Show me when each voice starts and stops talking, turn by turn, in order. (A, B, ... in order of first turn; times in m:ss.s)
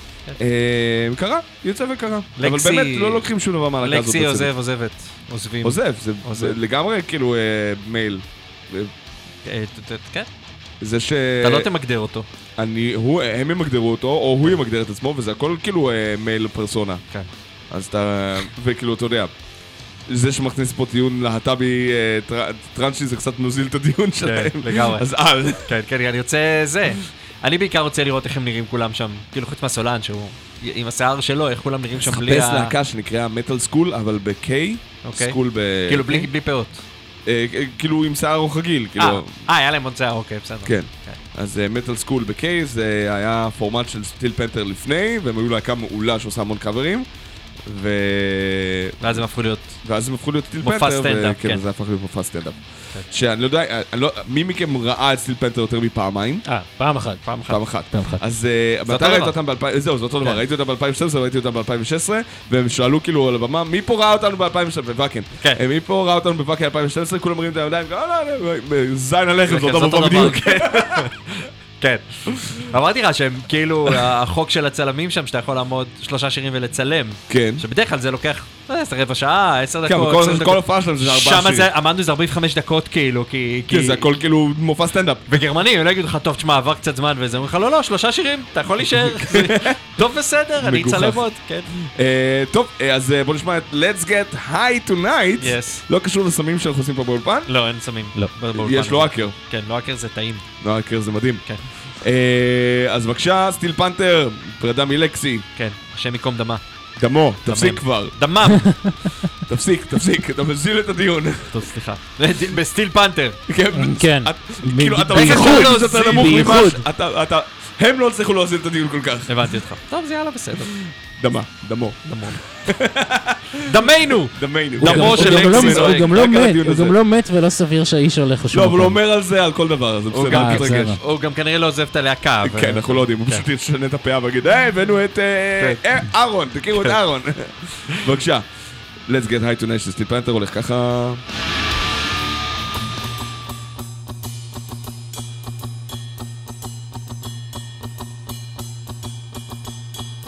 0:00.4-0:04.5 A
0:02.4-0:06.6 B
0:05.6-0:08.9 A
0:09.4-0:10.3 B
0:10.8-0:11.7 A
0:11.4-0:12.3 B
0:12.6-0:17.0 A
0:17.7-0:19.3 A
0:20.1-0:25.7 A
0:24.2-0:32.7 B
0:32.0-0:36.3 A
0:35.0-0:36.8 B
0:37.2-0:39.3 A
0:39.0-0:41.2 B
0:40.6-0:47.0 A
0:47.6-0:49.2 A
0:49.0-0:49.8 B
0:49.8-0:56.4 A
0:50.6-0:51.6 B
0:56.5-0:57.3 C
0:57.2-0:57.6 B
0:57.5-1:11.1 A
0:57.9-0:58.2 C
0:58.9-0:59.4 B
1:09.5-1:11.2 B
1:11.8-1:24.1 B
1:17.3-1:17.6 A
1:19.8-1:21.7 A
1:23.7-1:25.2 A
1:25.3-1:31.7 B
1:29.0-1:29.7 A
1:30.6-1:31.3 A
1:31.8-1:37.5 A
1:35.4-1:35.8 B
1:37.5-1:40.4 B
1:38.5-1:39.3 A
1:40.6-1:45.4 A
1:45.6-1:46.6 B
1:47.0-1:48.2 A
1:47.4-1:49.2 B
1:49.5-1:51.7 A
1:51.5-1:53.4 B
1:53.5-1:59.5 A
1:53.8-1:56.8 C
1:55.1-1:56.6 B
1:59.3-2:00.8 B
2:00.6-2:07.0 A
2:02.0-2:02.4 B
2:03.6-2:06.1 B
2:04.8-2:09.0 C
2:08.5-2:11.0 A
2:10.2-2:13.5 B
2:10.2-2:11.0 C
2:12.4-2:18.5 A
2:19.0-2:21.2 A